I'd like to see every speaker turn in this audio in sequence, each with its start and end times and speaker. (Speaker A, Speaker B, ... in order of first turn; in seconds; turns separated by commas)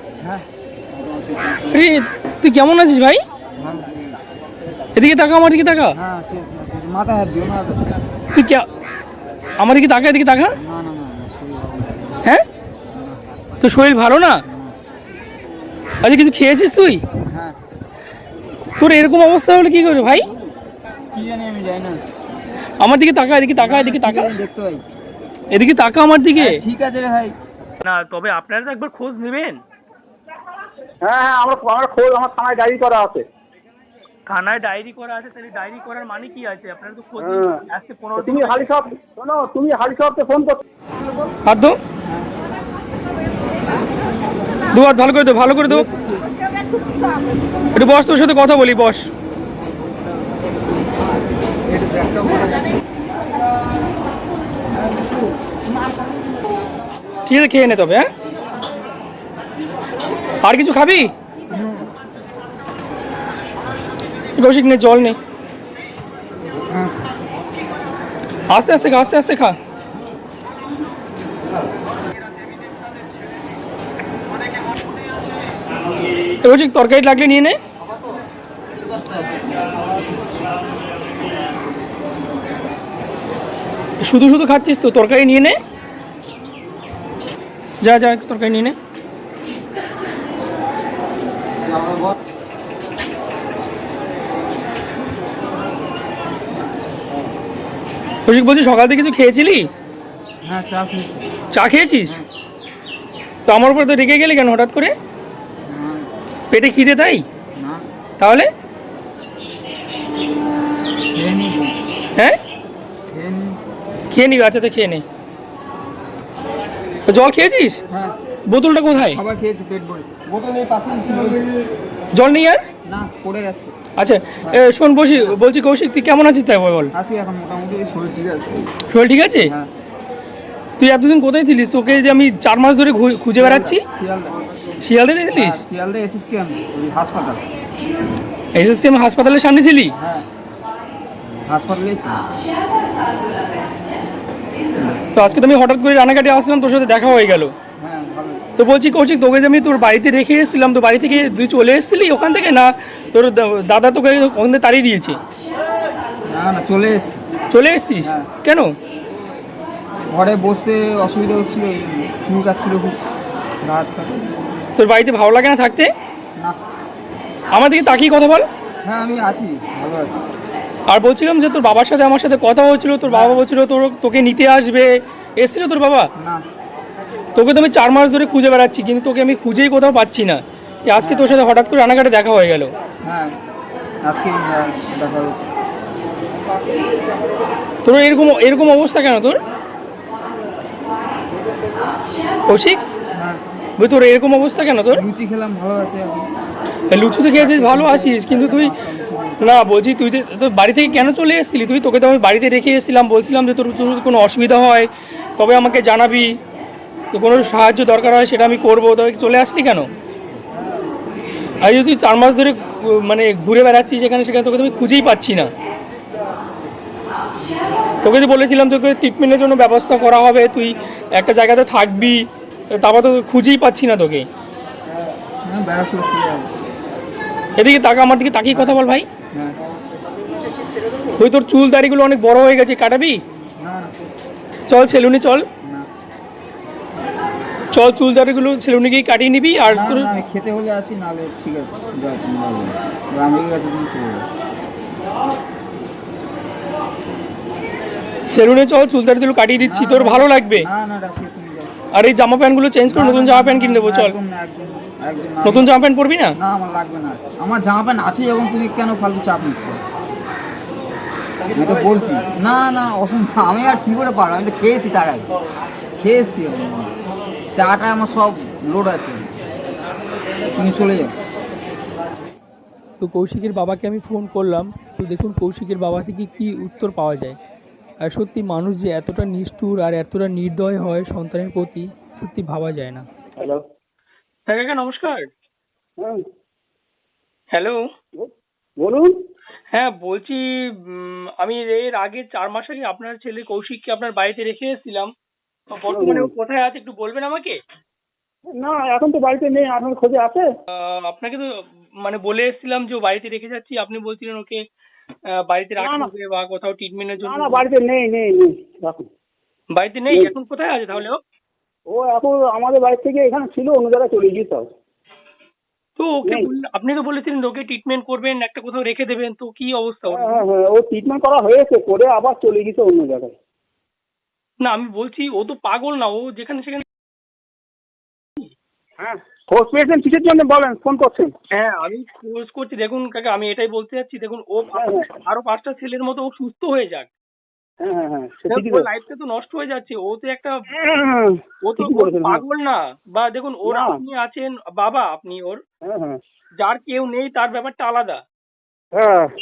Speaker A: 0.2-1.9, Speaker B: 1.7-3.2, Speaker A: 3.6-4.0, Speaker B: 4.9-5.9, Speaker A: 6.0-8.0, Speaker B: 8.3-8.6, Speaker B: 9.6-10.6, Speaker A: 10.6-12.2, Speaker A: 12.9-13.2, Speaker B: 13.6-14.4, Speaker A: 14.5-14.7, Speaker B: 16.0-17.0, Speaker A: 17.2-17.6, Speaker B: 18.8-20.3, Speaker A: 21.1-22.0, Speaker B: 22.8-24.3, Speaker A: 23.6-24.8, Speaker B: 25.5-26.6, Speaker A: 26.3-27.3, Speaker B: 27.8-29.6, Speaker C: 31.0-33.2, Speaker B: 34.3-38.7, Speaker C: 37.2-37.6, Speaker C: 38.2-40.6, Speaker B: 41.5-41.8, Speaker A: 42.0-42.3, Speaker B: 44.7-45.9, Speaker A: 45.6-46.3, Speaker B: 47.7-49.1, Speaker A: 51.7-52.7, Speaker B: 57.2-58.1, Speaker B: 60.4-61.1, Speaker A: 61.5-61.9, Speaker B: 64.3-65.2, Speaker A: 66.5-66.9, Speaker B: 68.5-69.5, Speaker B: 76.4-77.6, Speaker B: 84.0-85.6, Speaker B: 87.8-88.8, Speaker B: 98.2-99.7, Speaker A: 100.4-101.3, Speaker B: 101.5-102.2, Speaker B: 103.4-104.9, Speaker A: 105.6-106.1, Speaker B: 106.5-107.2, Speaker A: 107.5-107.8, Speaker B: 108.2-108.5, Speaker A: 111.1-111.8, Speaker A: 113.1-113.6, Speaker B: 114.1-115.0, Speaker B: 117.1-117.8, Speaker A: 117.9-118.2, Speaker B: 118.5-119.2, Speaker A: 118.9-121.5, Speaker B: 122.1-122.6, Speaker A: 122.8-123.7, Speaker B: 124.0-126.9, Speaker A: 124.4-125.4, Speaker A: 126.9-128.7, Speaker B: 128.9-129.5, Speaker A: 129.3-129.7, Speaker B: 130.8-133.8, Speaker A: 131.9-132.2, Speaker A: 133.4-134.4, Speaker B: 134.8-135.6, Speaker A: 135.3-137.4, Speaker B: 138.5-139.9, Speaker A: 140.0-140.2, Speaker A: 141.4-142.2, Speaker A: 144.7-145.4, Speaker B: 145.1-147.5, Speaker A: 147.8-148.4, Speaker B: 148.6-155.2, Speaker A: 156.3-157.2, Speaker B: 157.5-158.7, Speaker A: 158.0-158.3, Speaker A: 160.1-163.0, Speaker A: 163.6-164.3, Speaker B: 164.8-165.9, Speaker B: 167.5-168.4, Speaker A: 168.8-170.2, Speaker B: 170.9-176.1, Speaker A: 173.0-173.4, Speaker A: 176.2-176.4, Speaker B: 177.3-182.7, Speaker A: 181.0-181.3, Speaker A: 183.0-183.4, Speaker A: 184.0-185.5, Speaker B: 187.8-189.4, Speaker B: 192.5-192.8, Speaker A: 193.1-193.4, Speaker B: 193.8-195.0, Speaker A: 194.9-196.3, Speaker B: 196.9-198.7, Speaker A: 197.3-199.6, Speaker B: 199.4-206.3, Speaker B: 207.1-209.9, Speaker B: 211.6-215.5, Speaker B: 218.0-224.3, Speaker A: 224.9-226.5, Speaker B: 227.6-229.0, Speaker A: 228.5-228.8, Speaker B: 231.2-233.2, Speaker A: 233.4-233.9, Speaker B: 234.7-235.4, Speaker A: 235.6-235.9, Speaker B: 237.7-240.1, Speaker A: 239.7-244.3, Speaker B: 248.3-250.7, Speaker A: 249.6-251.7, Speaker B: 251.9-254.1, Speaker A: 252.9-255.7, Speaker B: 255.4-256.3, Speaker A: 256.4-259.8, Speaker A: 261.5-265.3, Speaker A: 266.0-266.9, Speaker A: 267.5-269.3, Speaker A: 270.6-271.1, Speaker B: 273.0-277.4, Speaker B: 278.0-283.1, Speaker B: 284.5-285.3, Speaker B: 287.5-287.8, Speaker C: 288.2-289.1, Speaker B: 289.7-295.1, Speaker B: 295.8-297.6, Speaker C: 295.9-296.3, Speaker C: 298.6-300.5, Speaker B: 300.7-304.6, Speaker B: 305.3-307.6, Speaker C: 305.8-306.1, Speaker C: 307.2-309.1, Speaker B: 309.7-311.2, Speaker C: 311.9-314.7, Speaker B: 316.0-320.4, Speaker C: 320.1-323.3, Speaker B: 324.6-326.9, Speaker C: 329.0-331.3, Speaker B: 331.5-337.1, Speaker C: 334.7-335.1, Speaker C: 337.8-338.9, Speaker B: 338.5-340.5, Speaker C: 340.7-342.4, Speaker B: 341.6-345.6, Speaker C: 343.7-344.0, Speaker C: 345.9-346.2, Speaker B: 346.6-348.2, Speaker C: 348.9-349.3